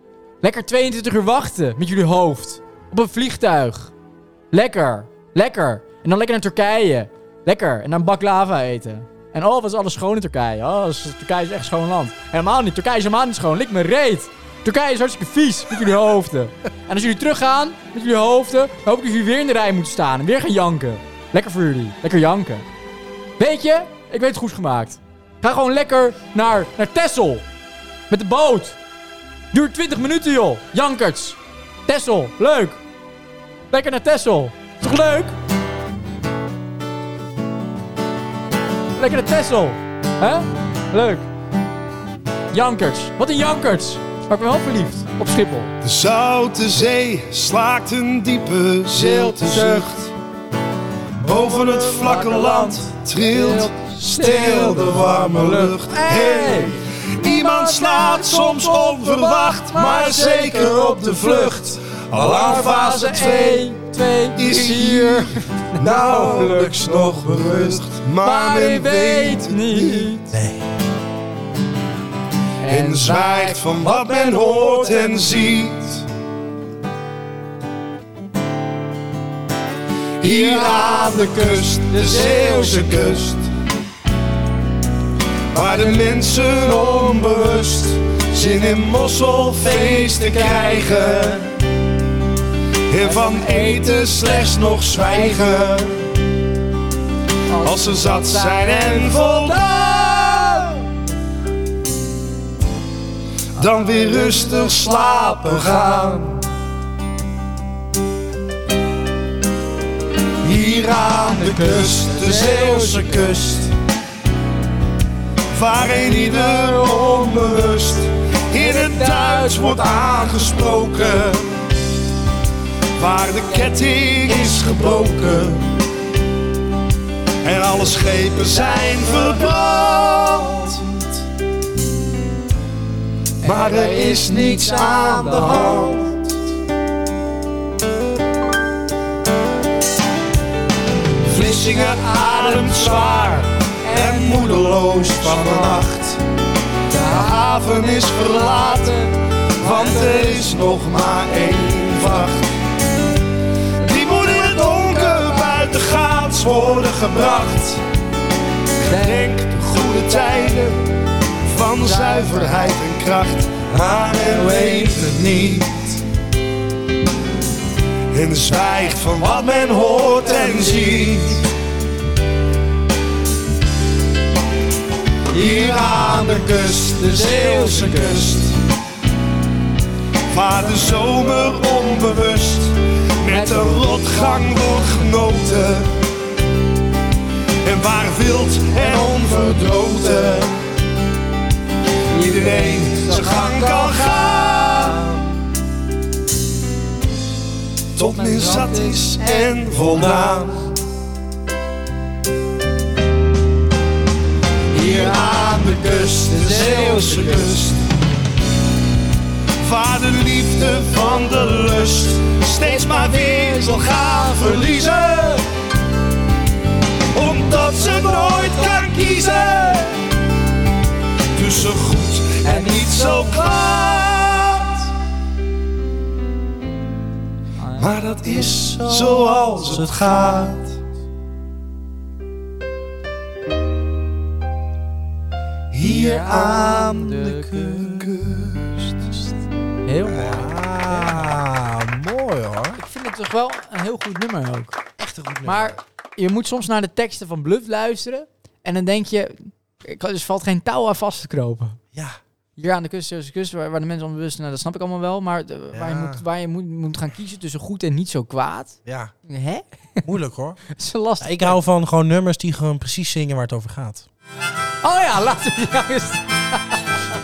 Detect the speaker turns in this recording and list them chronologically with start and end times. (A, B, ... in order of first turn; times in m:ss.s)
0:00.4-0:03.9 A
0:04.5-0:22.7 A
0:23.4-0:27.4 A
0:28.1-0:28.8 A
0:29.5-0:32.8 A
0:33.7-0:35.4 A
0:39.0-0:41.3 A
0:42.5-0:45.7 A
0:45.8-0:50.1 B
0:48.9-0:50.0 A
0:51.2-1:03.7 B
0:51.8-1:06.8 A
1:04.4-1:10.1 B
1:08.2-1:10.4 A
1:10.3-1:10.7 C
1:12.6-1:15.1 A
1:12.7-1:16.0 B
1:20.2-1:23.5 B
1:20.2-1:23.0 A
1:25.5-1:31.5 B
1:29.7-1:30.9 A
1:32.9-1:36.0 B
1:33.0-1:35.6 A
1:37.5-1:40.8 A
1:37.6-1:40.3 B
1:43.6-1:46.5 B
1:43.7-1:44.8 A
1:50.4-1:53.7 B
1:51.1-1:53.4 A
1:55.5-2:01.5 B
1:58.6-1:59.8 A
2:03.0-2:05.7 B
2:07.4-2:11.1 B
2:13.4-2:16.0 A
2:13.4-2:16.2 B
2:21.2-2:26.2 B
2:21.3-2:25.8 A
2:26.9-2:27.4 A
2:27.1-2:29.1 B
2:28.6-2:29.0 A
2:29.6-2:30.6 A
2:29.6-2:32.5 B
2:33.8-2:37.8 B
2:38.8-2:39.5 A
2:38.9-2:40.8 B
2:41.4-2:46.0 B
2:41.8-2:42.8 A
2:44.3-2:45.0 A
2:48.1-2:51.4 B
2:50.2-2:50.8 A
2:55.3-2:58.4 A
2:55.3-2:58.5 B
3:00.3-3:05.9 B
3:03.3-3:05.1 A
3:07.6-3:10.6 B
3:12.1-3:15.0 A
3:12.2-3:15.2 B
3:18.0-3:20.7 B
3:18.0-3:20.1 A
3:24.7-3:27.6 A
3:24.7-3:27.8 B
3:29.6-3:35.4 B
3:32.6-3:34.9 A
3:37.1-3:40.0 B
3:37.8-3:39.0 A
3:41.4-3:44.8 B
3:42.4-3:43.2 A
3:47.6-3:48.0 A
3:47.8-3:50.7 B
3:49.1-3:50.3 C
3:55.7-3:57.0 B
3:55.8-3:58.0 A
3:56.0-3:58.2 C
3:57.8-3:58.8 B
3:59.8-4:01.4 A
4:00.1-4:02.8 C
4:02.8-4:04.8 A
4:05.0-4:05.8 C
4:05.4-4:11.8 A
4:12.6-4:20.0 A
4:15.7-4:16.2 C
4:18.9-4:19.1 C
4:20.0-4:20.6 C
4:20.7-4:21.6 A
4:21.2-4:24.1 C
4:24.8-4:27.0 A